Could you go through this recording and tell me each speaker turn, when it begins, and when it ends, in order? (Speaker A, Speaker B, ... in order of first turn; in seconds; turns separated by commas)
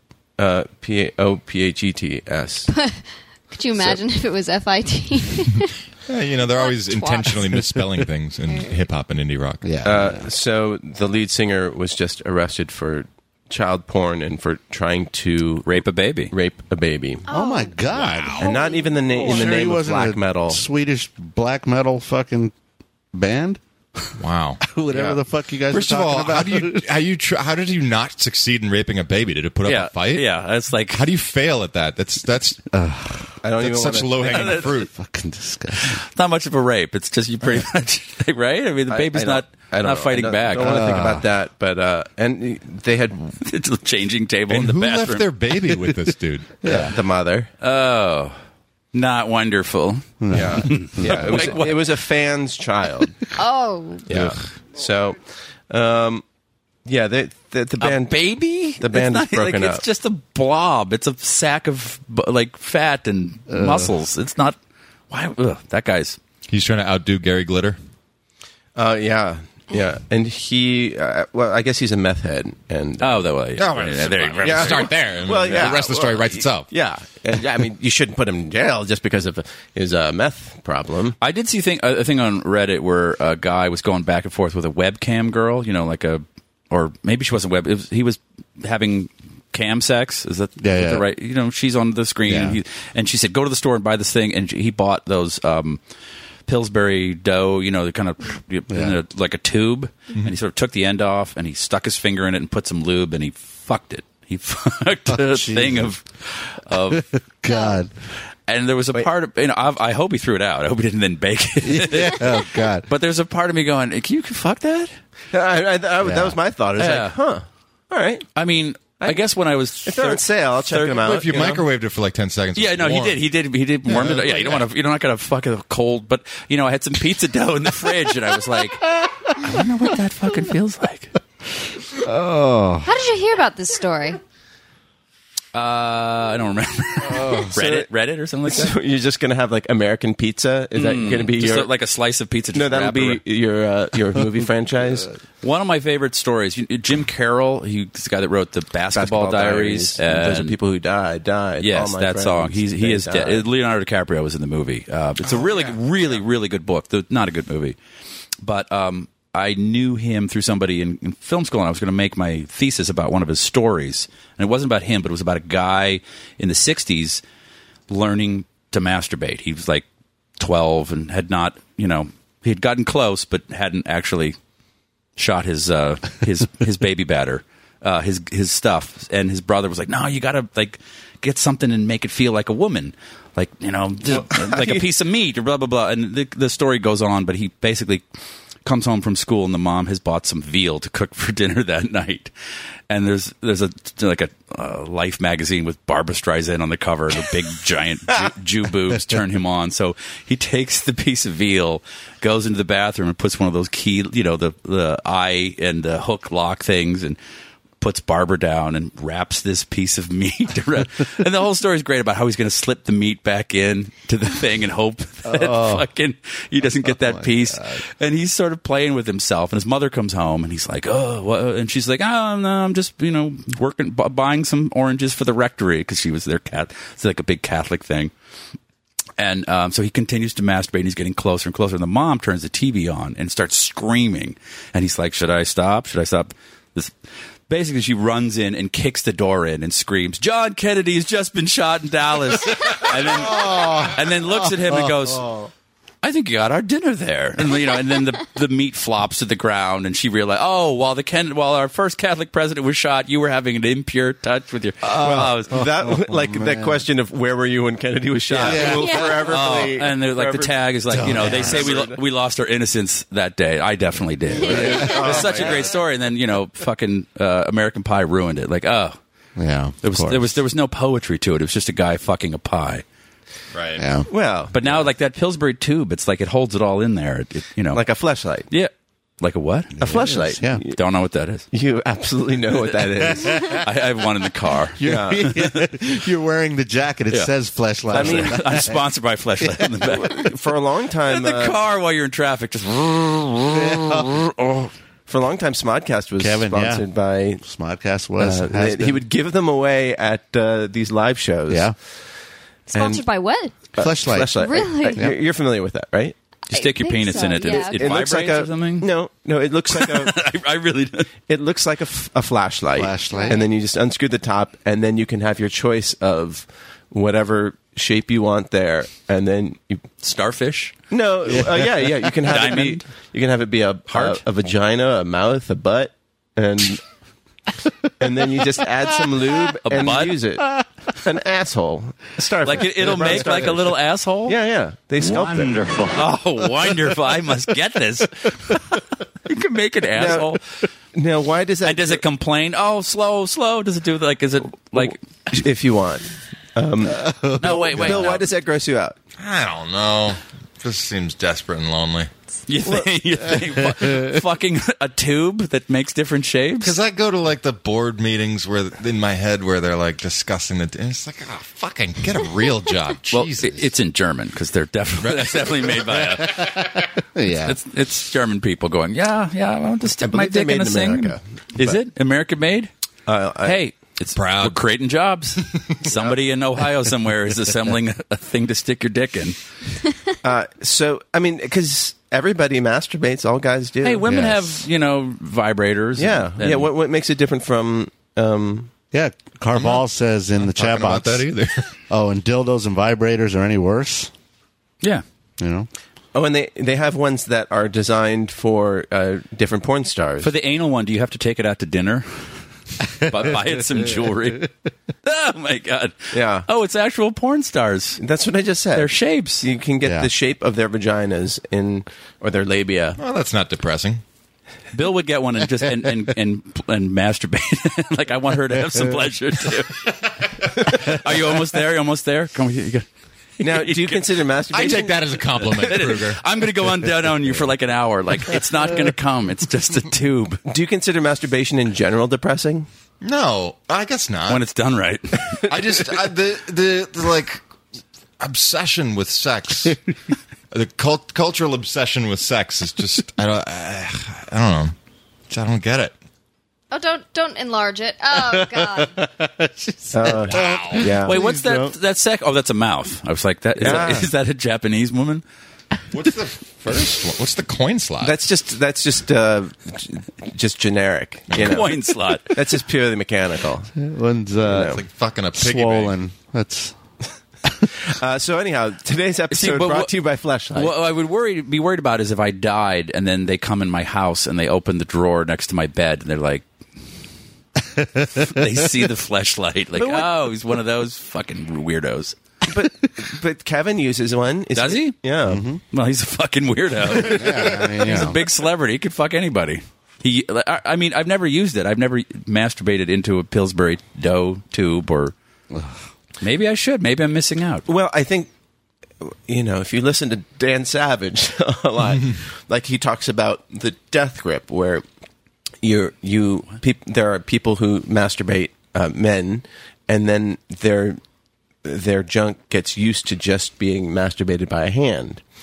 Speaker A: 0.4-2.7, Speaker B: 2.7-5.8, Speaker C: 6.1-9.8, Speaker B: 6.5-7.5, Speaker B: 8.5-8.8, Speaker D: 9.6-10.3, Speaker A: 9.8-17.2, Speaker E: 15.7-16.3, Speaker B: 17.3-17.8, Speaker D: 17.3-18.6, Speaker C: 17.9-18.4, Speaker B: 18.4-19.6, Speaker A: 18.4-20.6, Speaker D: 19.2-22.5, Speaker D: 23.1-23.6, Speaker C: 24.2-24.6, Speaker D: 24.6-26.9, Speaker A: 24.9-25.2, Speaker C: 25.7-30.3, Speaker E: 29.6-31.1, Speaker C: 30.9-32.7, Speaker D: 32.7-33.4, Speaker A: 33.4-34.7, Speaker C: 33.6-34.9, Speaker E: 34.2-34.9, Speaker D: 34.9-36.0, Speaker E: 35.8-40.8, Speaker A: 38.9-43.4, Speaker D: 40.6-41.3, Speaker E: 43.4-45.3, Speaker C: 44.5-46.7, Speaker D: 46.6-46.9, Speaker A: 46.7-47.5, Speaker E: 47.6-48.4, Speaker E: 48.9-51.8, Speaker D: 50.2-51.5, Speaker A: 50.3-53.2, Speaker B: 53.4-54.1, Speaker A: 54.1-56.2, Speaker A: 56.9-58.3, Speaker E: 57.8-64.6, Speaker A: 58.8-59.8, Speaker D: 63.5-63.9, Speaker E: 65.1-66.2, Speaker C: 66.5-67.8, Speaker A: 68.8-73.2, Speaker E: 73.0-75.0, Speaker C: 73.6-76.7, Speaker A: 74.4-81.2, Speaker E: 81.2-95.8, Speaker D: 90.6-91.1, Speaker D: 92.3-92.6, Speaker E: 96.5-107.1, Speaker D: 98.7-99.0, Speaker D: 105.1-105.9, Speaker D: 106.7-107.9, Speaker E: 108.5-114.9, Speaker D: 111.6-112.9, Speaker A: 115.3-118.3, Speaker D: 116.0-116.4, Speaker E: 116.8-117.2, Speaker E: 118.3-121.2, Speaker A: 119.8-121.7, Speaker C: 121.0-123.2, Speaker E: 122.5-131.1, Speaker C: 124.1-124.4, Speaker D: 131.9-132.9, Speaker B: 132.8-134.2, Speaker E: 135.5-138.8, Speaker D: 137.1-137.5, Speaker A: 137.5-137.9, Speaker A: 138.4-141.7, Speaker E: 140.8-143.2, Speaker A: 142.5-145.1, Speaker E: 145.4-150.6, Speaker A: 148.9-153.4, Speaker E: 151.6-157.8, Speaker E: 158.4-167.2, Speaker E: 167.9-169.9, Speaker E: 170.4-174.4, Speaker E: 175.2-188.0, Speaker A: 184.1-184.9, Speaker E: 188.7-192.3, Speaker E: 192.9-207.2, Speaker E: 207.8-228.1, Speaker D: 215.2-215.9, Speaker D: 216.8-217.8, Speaker E: 229.2-236.9, Speaker E: 237.5-245.3, Speaker D: 242.9-245.5, Speaker E: 246.0-255.6, Speaker D: 254.9-256.8, Speaker A: 255.0-262.0, Speaker E: 258.3-258.7, Speaker D: 258.4-259.5, Speaker B: 258.7-259.1, Speaker E: 259.3-269.0, Speaker D: 260.9-261.6, Speaker A: 264.4-265.8, Speaker D: 264.5-265.4, Speaker D: 269.4-270.3, Speaker E: 269.8-272.8, Speaker C: 273.5-273.9, Speaker D: 273.8-274.1, Speaker A: 274.1-274.8, Speaker E: 274.5-277.8, Speaker A: 277.7-278.5, Speaker E: 278.5-279.8, Speaker D: 279.8-280.6, Speaker A: 279.8-280.8, Speaker E: 280.6-281.5, Speaker A: 281.5-283.6, Speaker D: 283.2-283.5, Speaker E: 283.5-285.7, Speaker D: 284.8-288.8, Speaker A: 284.8-285.3, Speaker E: 287.9-290.3, Speaker A: 287.9-288.6, Speaker D: 289.4-289.7, Speaker A: 289.9-291.6, Speaker E: 291.1-293.9, Speaker D: 293.6-294.1, Speaker A: 294.4-297.4, Speaker D: 296.2-296.9, Speaker D: 297.4-299.0, Speaker A: 298.2-301.7, Speaker D: 301.5-301.8, Speaker B: 302.7-303.6, Speaker A: 302.8-303.0, Speaker A: 303.7-306.2, Speaker D: 303.8-305.2, Speaker B: 304.4-305.1, Speaker E: 306.5-308.9, Speaker B: 306.5-308.0, Speaker A: 307.3-310.2, Speaker E: 309.7-311.1, Speaker A: 311.3-319.9, Speaker D: 312.8-313.4, Speaker B: 313.1-313.4, Speaker E: 320.0-320.8, Speaker A: 320.9-326.8, Speaker E: 322.3-322.9, Speaker E: 323.9-324.2, Speaker A: 328.0-333.7, Speaker E: 329.6-330.2, Speaker E: 332.4-334.4, Speaker A: 334.3-335.6, Speaker E: 335.9-338.7, Speaker E: 339.2-340.4, Speaker A: 339.9-340.3, Speaker A: 340.9-342.0, Speaker E: 341.6-345.0, Speaker A: 344.8-349.0, Speaker D: 346.9-347.8, Speaker E: 347.4-348.2, Speaker C: 349.2-352.1, Speaker E: 352.5-356.8, Speaker C: 356.6-363.7, Speaker E: 363.1-366.8, Speaker C: 365.0-365.9, Speaker D: 366.1-367.6, Speaker E: 367.4-372.7, Speaker A: 370.0-371.8, Speaker A: 373.1-373.6, Speaker E: 373.4-379.4, Speaker C: 374.1-374.6, Speaker A: 380.2-384.0, Speaker E: 383.8-386.7, Speaker D: 384.1-384.4, Speaker A: 386.0-388.7, Speaker D: 388.9-391.3, Speaker C: 389.6-389.9, Speaker C: 390.4-391.8, Speaker D: 391.9-394.1, Speaker D: 395.4-395.7, Speaker A: 396.1-400.3, Speaker E: 400.2-402.4, Speaker E: 403.0-404.5, Speaker E: 405.0-408.0, Speaker A: 406.1-406.5, Speaker A: 408.0-413.0, Speaker E: 408.8-409.5, Speaker D: 409.8-410.1, Speaker C: 413.0-414.0, Speaker E: 414.7-420.0, Speaker E: 420.5-422.9, Speaker E: 423.4-424.1, Speaker A: 423.4-425.8, Speaker C: 424.5-426.2, Speaker E: 424.6-424.9, Speaker E: 425.4-430.4, Speaker A: 430.5-432.7, Speaker C: 433.0-434.4, Speaker E: 434.3-435.2, Speaker C: 435.5-437.4, Speaker C: 438.2-439.8, Speaker C: 440.5-444.8, Speaker C: 445.3-445.9, Speaker B: 446.7-449.0, Speaker D: 448.3-451.7, Speaker A: 449.9-451.2, Speaker C: 450.3-450.9, Speaker E: 451.0-455.2, Speaker A: 453.6-454.1, Speaker C: 455.9-458.2, Speaker A: 458.0-463.7, Speaker C: 461.3-461.6, Speaker E: 461.4-462.4, Speaker D: 463.8-464.8, Speaker A: 464.5-464.8, Speaker C: 464.5-465.9, Speaker D: 465.3-466.8, Speaker A: 467.9-470.7, Speaker E: 469.3-469.9, Speaker E: 470.5-476.4, Speaker D: 477.8-478.4, Speaker E: 478.0-482.2, Speaker A: 479.8-480.1, Speaker A: 482.4-485.5, Speaker E: 484.5-485.0, Speaker D: 485.3-485.6, Speaker E: 485.7-495.1, Speaker D: 486.9-488.2, Speaker D: 495.5-495.8, Speaker E: 496.2-497.7, Speaker A: 497.7-498.3, Speaker A: 499.0-504.8, Speaker A: 505.6-511.0, Speaker A: 511.6-515.2